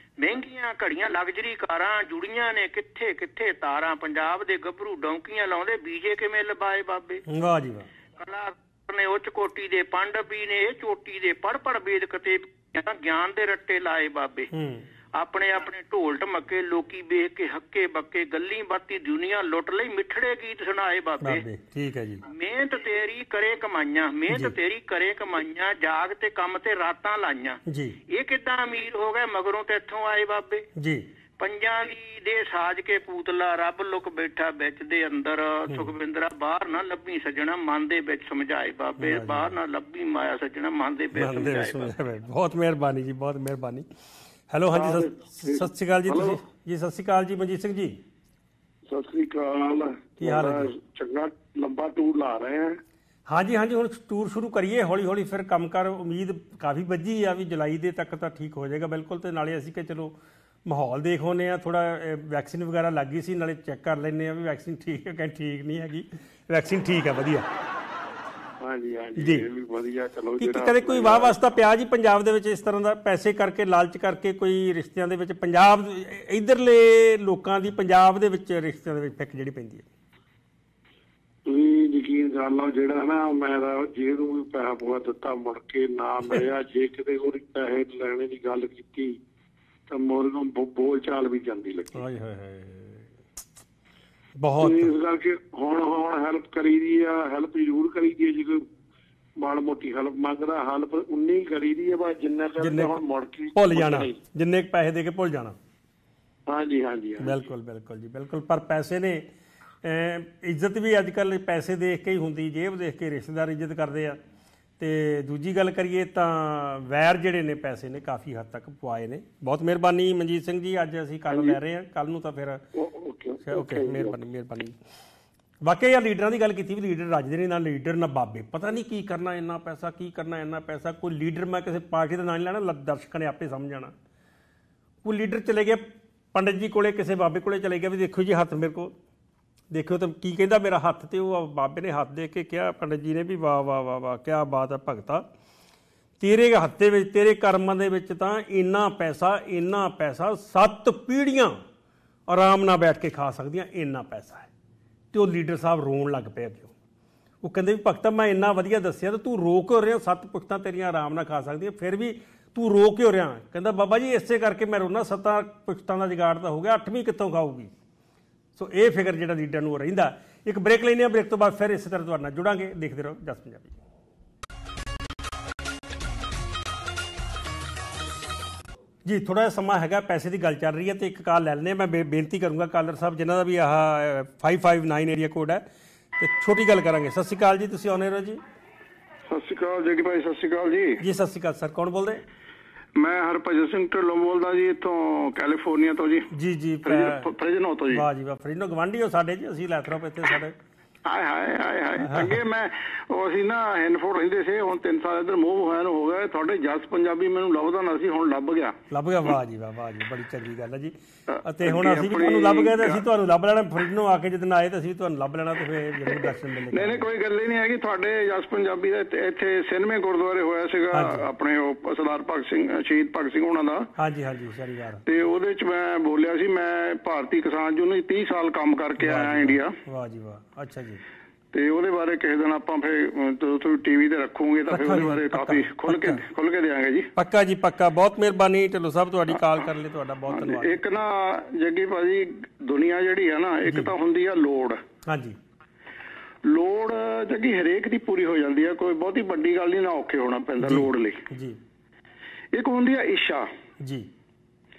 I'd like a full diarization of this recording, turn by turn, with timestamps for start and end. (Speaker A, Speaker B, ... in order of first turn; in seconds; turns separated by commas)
Speaker A: 0.2-7.2, Speaker B: 7.3-7.9, Speaker A: 8.2-14.5, Speaker B: 14.5-14.9, Speaker A: 15.1-21.4, Speaker B: 21.2-22.2, Speaker A: 22.2-30.6, Speaker B: 24.3-24.6, Speaker B: 27.7-28.0, Speaker B: 30.8-31.0, Speaker A: 31.4-41.9, Speaker B: 39.0-39.5, Speaker B: 41.1-43.9, Speaker B: 44.5-48.0, Speaker C: 44.7-46.4, Speaker C: 48.9-52.8, Speaker B: 50.2-50.7, Speaker B: 53.3-67.5, Speaker C: 68.6-71.3, Speaker B: 69.2-69.5, Speaker B: 70.4-79.8, Speaker C: 81.5-89.1, Speaker C: 89.9-92.0, Speaker B: 91.9-93.1, Speaker B: 94.4-94.9, Speaker C: 94.6-98.6, Speaker C: 99.4-104.1, Speaker B: 102.6-103.0, Speaker B: 103.5-105.6, Speaker C: 106.5-107.4, Speaker B: 107.2-109.3, Speaker B: 109.8-114.2, Speaker B: 114.8-122.6, Speaker C: 122.7-124.1, Speaker B: 123.4-124.8, Speaker B: 125.6-133.9, Speaker B: 135.0-138.9, Speaker B: 139.7-145.3, Speaker B: 146.2-151.6, Speaker B: 152.3-154.5, Speaker B: 155.1-156.7, Speaker B: 157.4-167.7, Speaker B: 168.6-173.8, Speaker B: 179.0-185.6, Speaker B: 186.2-188.4, Speaker D: 189.3-191.0, Speaker B: 191.0-192.2, Speaker D: 192.9-196.3, Speaker B: 196.3-197.3, Speaker D: 196.8-198.0, Speaker B: 197.9-200.5, Speaker D: 201.0-208.8, Speaker B: 202.0-202.3, Speaker B: 208.9-217.1, Speaker D: 211.3-213.0, Speaker D: 216.1-223.9, Speaker B: 220.9-221.2, Speaker B: 223.9-225.0, Speaker D: 225.1-229.8, Speaker B: 229.0-231.0, Speaker D: 231.5-237.1, Speaker B: 234.7-236.2, Speaker B: 237.1-240.8, Speaker D: 240.3-244.8, Speaker B: 243.6-243.9, Speaker B: 245.0-245.4, Speaker D: 246.4-251.2, Speaker B: 250.6-251.6, Speaker D: 252.5-253.5, Speaker B: 253.8-254.1